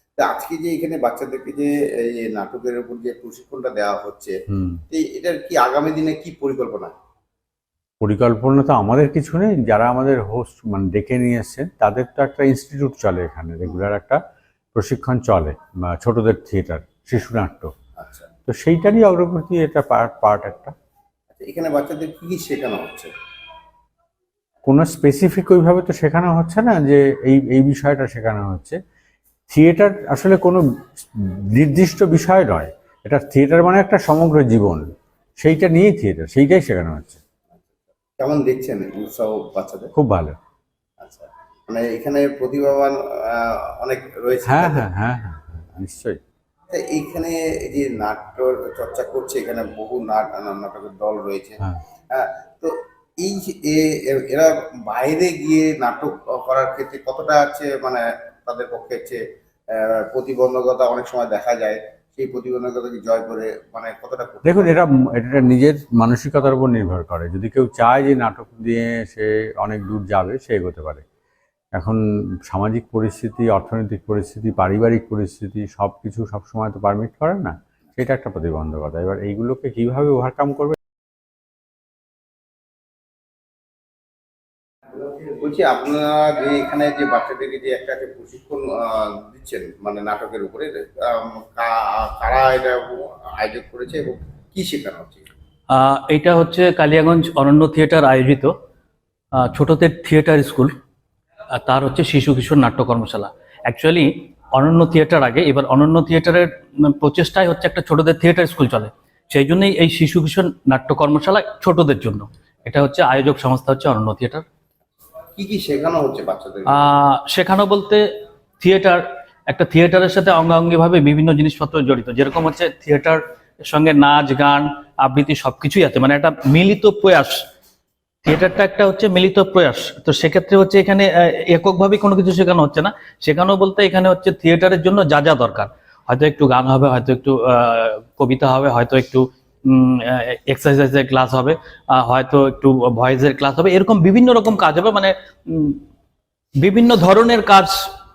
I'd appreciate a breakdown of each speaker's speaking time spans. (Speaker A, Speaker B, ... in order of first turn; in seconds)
Speaker A: 0.2-4.3, 4.9-6.9, 18.0-18.3, 21.3-23.1, 38.2-39.9, 41.0-43.0, 43.6-44.9, 46.7-51.6, 52.1-59.2, 60.1-64.8, 85.0-88.7, 89.3-95.2, 115.3-116.9
Speaker B: 4.5-4.8, 8.0-14.2, 14.7-17.7, 18.4-20.7, 24.6-28.8, 29.5-34.8, 35.4-37.2, 39.9-40.4, 44.4-46.2, 64.4-71.0, 72.5-80.8
Speaker C: 95.7-98.5, 99.4-100.7, 101.5-114.4, 116.7-118.0, 118.6-127.4, 128.2-145.8, 146.6-147.7